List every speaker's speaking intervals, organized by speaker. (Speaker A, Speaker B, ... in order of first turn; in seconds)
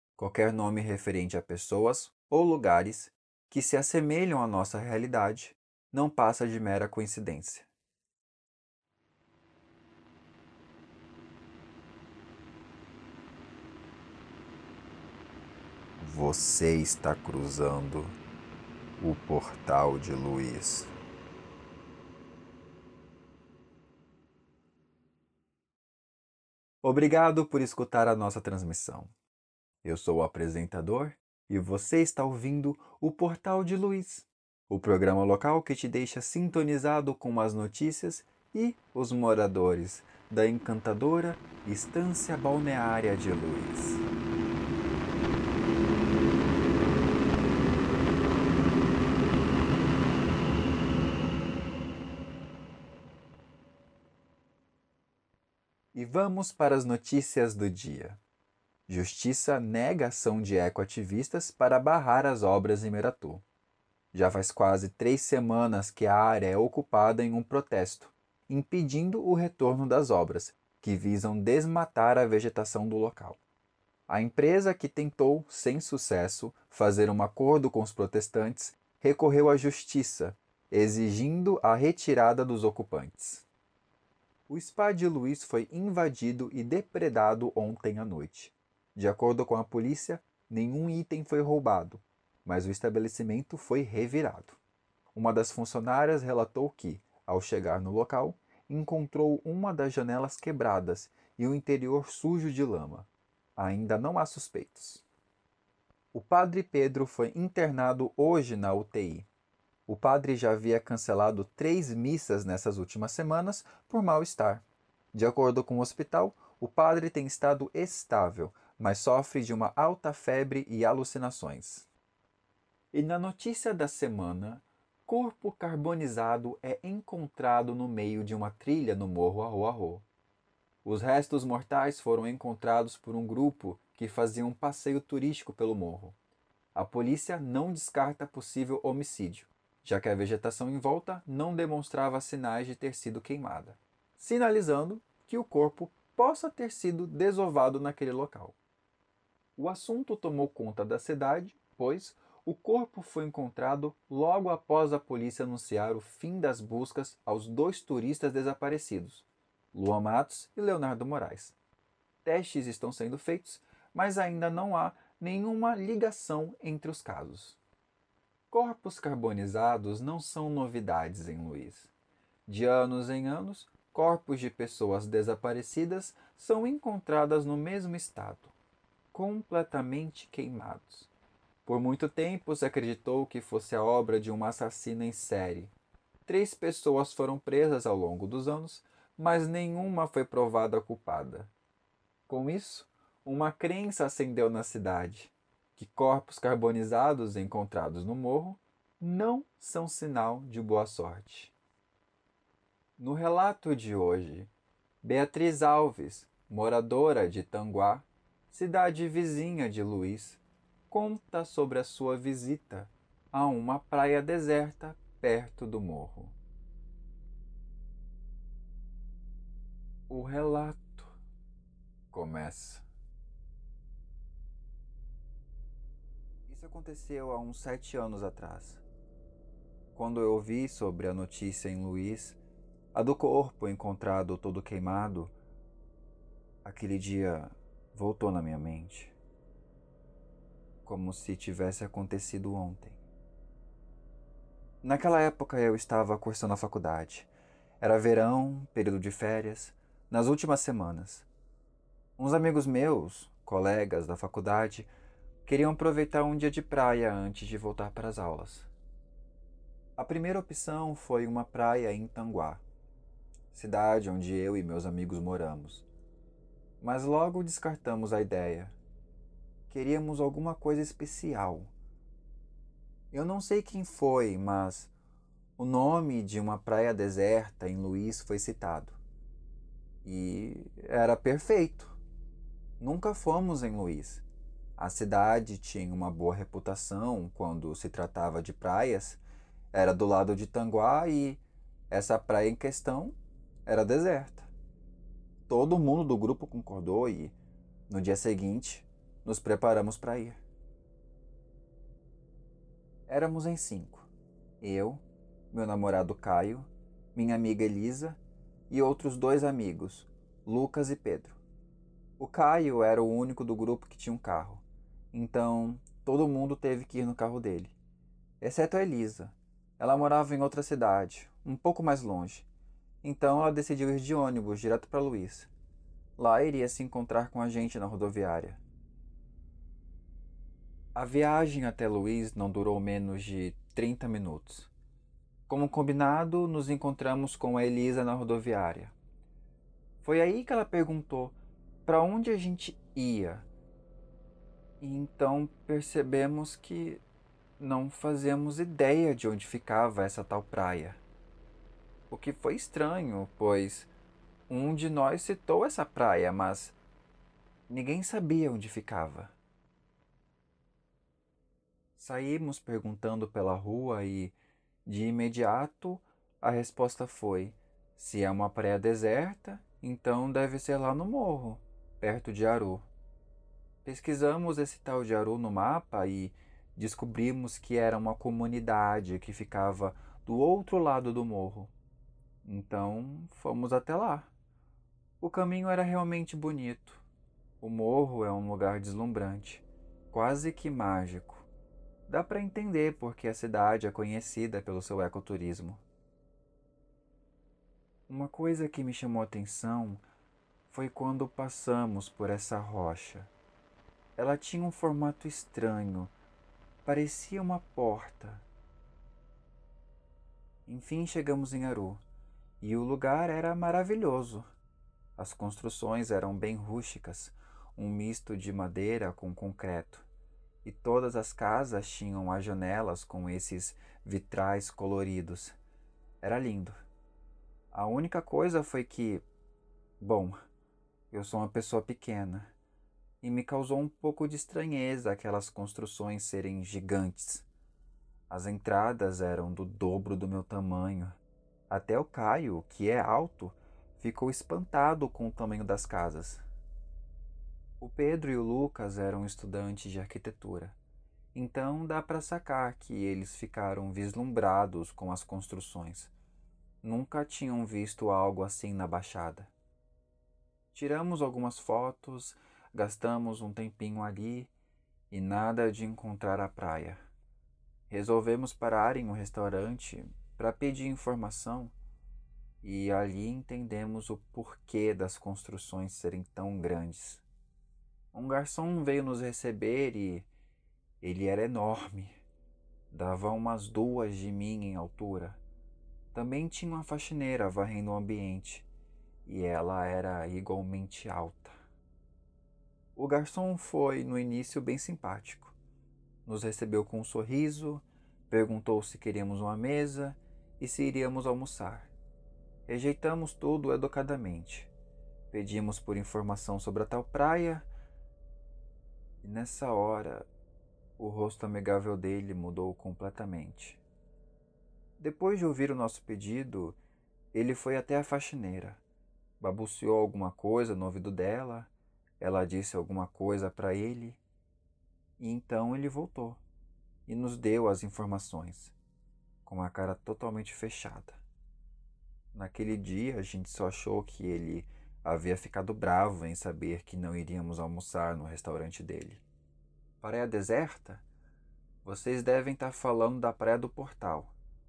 Speaker A: 0.2-7.7, 16.0-18.2, 19.0-20.9, 26.8-29.1, 29.8-44.0, 55.9-58.2, 58.9-63.4, 64.1-73.4, 74.1-83.5, 84.5-94.6, 95.1-105.0, 106.1-109.3, 109.9-114.6, 115.1-121.9, 122.9-130.1, 130.8-136.2, 136.8-148.6, 149.6-161.6, 162.2-167.6, 168.5-171.9, 172.5-178.5, 179.1-181.1, 181.7-185.7, 186.3-191.5, 192.3-201.5, 203.0-204.5, 205.0-216.4, 220.1-221.2, 222.1-222.8, 226.5-228.8, 229.9-232.4, 232.9-235.3, 236.6-239.2, 240.8-243.0, 244.8-247.3, 247.8-251.3, 252.2-254.9, 255.4-258.7, 260.0-262.6, 263.5-265.9, 266.8-268.8, 269.7-271.7, 273.1-274.9, 275.6-279.0, 280.0-282.0, 282.8-284.2, 284.8-289.2, 289.7-294.5, 295.5-297.4, 297.9-300.4, 303.1-304.1, 304.6-308.2, 308.7-311.4, 312.2-317.8, 318.4-322.5, 323.0-325.5, 326.2-328.6, 330.9-334.7, 335.5-338.9, 340.0-343.5, 344.8-347.0, 347.6-351.0, 352.1-353.9, 354.5-356.8, 357.7-359.3, 362.0-364.4, 364.9-372.9, 373.9-381.7, 382.4-384.3, 385.2-387.1, 387.6-391.5, 392.1-395.8, 398.1-400.0, 400.7-403.3, 404.2-406.1, 406.9-408.5, 410.7-412.0, 412.6-414.4, 415.2-420.1, 420.6-425.6, 426.2-426.8, 427.7-429.2, 430.0-430.4, 431.1-432.5, 433.2-437.5, 438.3-441.2, 441.7-446.4, 447.8-450.8, 451.3-456.1, 456.8-459.5, 460.7-464.5, 465.1-467.0, 467.9-471.7, 472.6-477.2, 478.1-480.3, 481.0-482.2, 482.9-485.4, 486.1-488.7, 489.3-491.6, 493.0-495.6, 496.3-501.9, 502.7-504.7, 505.3-507.7, 509.2-510.3, 511.0-513.8, 515.0-516.8, 517.3-518.8, 519.4-524.2, 525.2-526.4, 527.1-528.8, 529.5-531.2, 532.3-539.2, 540.0-541.0, 541.8-544.3